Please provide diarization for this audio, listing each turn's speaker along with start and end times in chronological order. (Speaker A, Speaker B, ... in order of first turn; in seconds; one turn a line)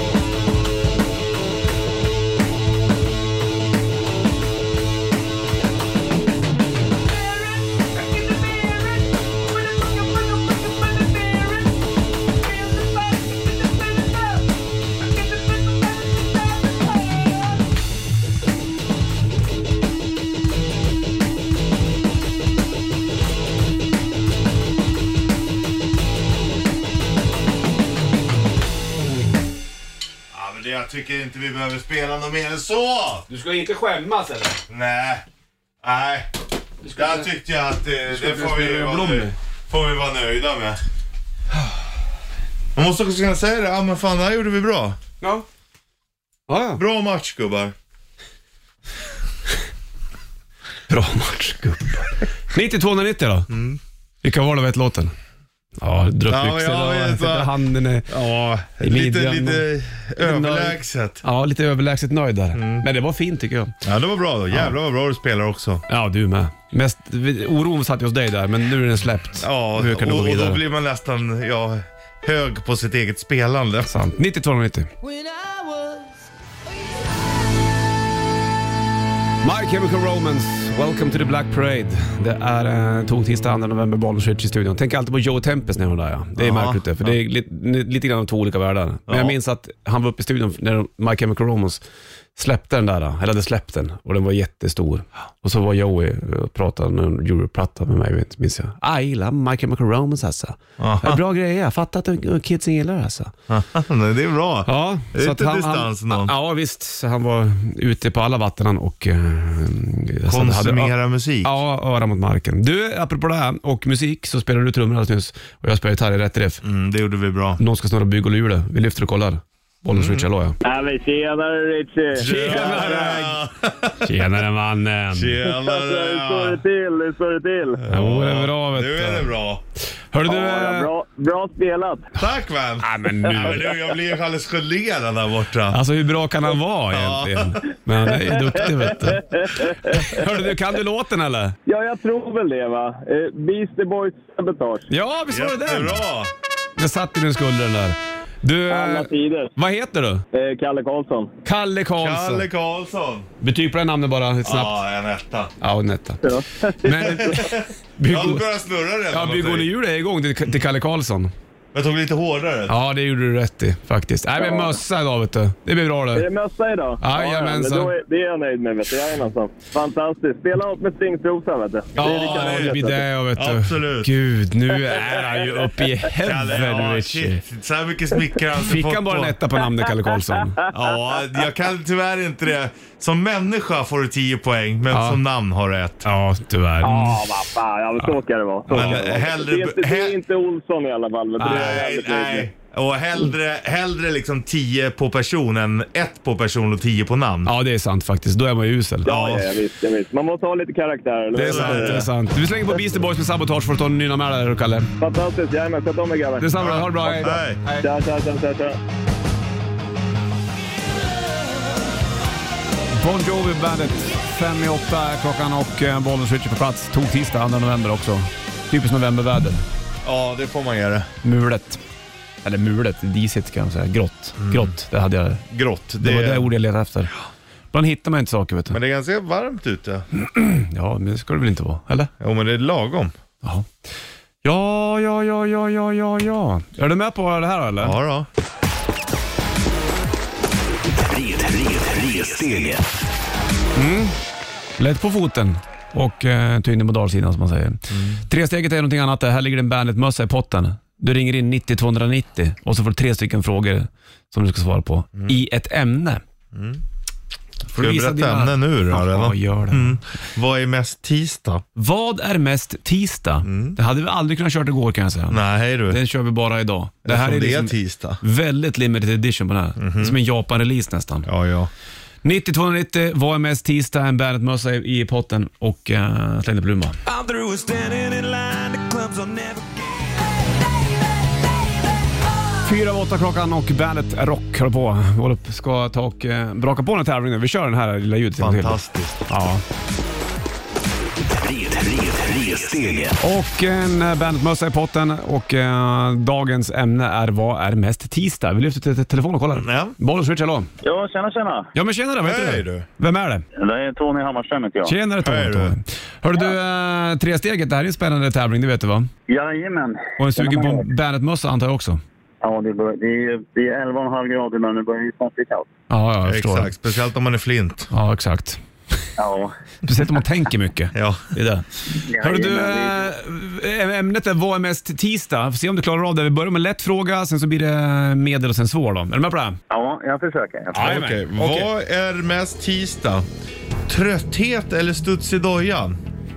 Speaker A: 30.3-33.2
Speaker B: 33.3-34.6
Speaker A: 34.7-35.2
Speaker A: 35.8-36.3
Speaker B: 36.8-37.3
Speaker A: 36.9-40.8
Speaker B: 38.1-39.4
Speaker A: 42.8-45.0
Speaker B: 46.5-46.8
Speaker A: 46.8-47.7
Speaker B: 50.9-53.5
Speaker A: 53.5-53.8
Speaker B: 54.2-55.1
Speaker B: 55.8-63.8
Speaker A: 56.3-57.5
Speaker A: 58.1-61.2
Speaker A: 62.5-62.9
Speaker A: 63.8-65.8
Speaker B: 65.9-70.6
Speaker A: 69.4-73.9
Speaker B: 73.9-74.9
Speaker B: 79.4-91.8
Speaker A: 86.4-87.1
Speaker A: 89.1-89.3
Speaker B: 92.4-103.3
Speaker A: 100.8-101.2
Speaker A: 103.5-106.3
Speaker B: 104.7-116.6
Speaker A: 110.3-111.5
Speaker A: 116.6-117.6
Speaker B: 117.6-120.6
Speaker A: 119.9-120.3
Speaker C: 120.6-123.2
Speaker B: 122.2-123.4
Speaker A: 122.2-124.1
Speaker B: 124.0-125.4
Speaker A: 125.1-126.6
Speaker C: 125.4-127.8
Speaker A: 127.8-129.6
Speaker B: 127.9-129.3
Speaker B: 130.1-130.9
Speaker C: 130.2-132.1
Speaker A: 132.2-135.8
Speaker B: 132.8-133.7
Speaker B: 135.7-141.6
Speaker A: 136.9-137.6
Speaker C: 139.0-140.2
Speaker C: 141.7-144.9
Speaker B: 144.9-146.0
Speaker A: 145.3-146.3
Speaker B: 146.8-150.2
Speaker C: 148.7-149.5
Speaker C: 150.3-151.3
Speaker B: 151.4-152.5
Speaker A: 152.0-153.3
Speaker B: 153.4-154.8
Speaker A: 154.4-155.5
Speaker B: 155.6-158.5
Speaker C: 156.2-157.5
Speaker A: 157.0-159.7
Speaker B: 159.1-161.3
Speaker A: 161.7-162.8
Speaker B: 162.7-166.3
Speaker C: 164.4-164.7
Speaker C: 166.1-173.0
Speaker B: 167.0-167.9
Speaker B: 171.9-177.4
Speaker A: 172.0-172.8
Speaker A: 173.3-174.1
Speaker A: 176.2-179.4
Speaker B: 178.6-180.6
Speaker A: 180.7-186.1
Speaker B: 184.9-185.2
Speaker B: 186.1-187.4
Speaker C: 186.8-192.5
Speaker A: 188.7-190.2
Speaker B: 188.7-189.0
Speaker B: 191.4-191.8
Speaker A: 191.4-197.5
Speaker B: 197.4-199.1
Speaker C: 199.1-202.1
Speaker A: 199.1-199.5
Speaker B: 201.3-204.9
Speaker A: 201.4-202.1
Speaker C: 205.0-208.8
Speaker B: 206.4-207.9
Speaker A: 206.6-207.6
Speaker B: 212.9-219.6
Speaker A: 220.0-221.1
Speaker B: 221.2-221.8
Speaker B: 222.4-225.4
Speaker A: 224.4-224.7
Speaker A: 225.5-226.5
Speaker B: 226.0-227.1
Speaker B: 227.7-228.8
Speaker A: 228.7-230.1
Speaker B: 230.1-232.1
Speaker A: 232.2-233.1
Speaker B: 233.4-233.7
Speaker B: 234.4-238.0
Speaker A: 237.8-238.3
Speaker D: 241.0-242.9
Speaker B: 243.8-244.2
Speaker B: 244.8-256.2
Speaker A: 247.9-248.2
Speaker A: 256.5-256.8
Speaker B: 257.7-260.0
Speaker A: 257.8-261.6
Speaker B: 261.8-271.3
Speaker A: 263.4-263.8
Speaker A: 265.3-266.0
Speaker A: 267.1-268.2
Speaker A: 269.8-270.1
Speaker A: 271.3-271.7
Speaker B: 272.2-279.7
Speaker B: 282.6-289.6
Speaker A: 288.4-289.2
Speaker D: 291.3-293.2
Speaker B: 293.2-300.7
Speaker A: 299.5-299.9
Speaker E: 300.8-301.7
Speaker B: 301.7-303.4
Speaker A: 302.2-302.9
Speaker E: 303.6-304.9
Speaker B: 304.9-309.1
Speaker A: 305.2-305.8
Speaker E: 309.3-310.9
Speaker B: 310.2-312.0
Speaker E: 312.4-315.7
Speaker B: 315.9-316.7
Speaker A: 316.2-317.9
Speaker B: 317.9-318.6
Speaker E: 319.2-319.5
Speaker B: 319.9-329.6
Speaker A: 320.9-321.3
Speaker E: 322.0-323.1
Speaker E: 329.7-330.9
Speaker B: 330.7-331.7
Speaker A: 330.8-333.2
Speaker A: 333.9-336.0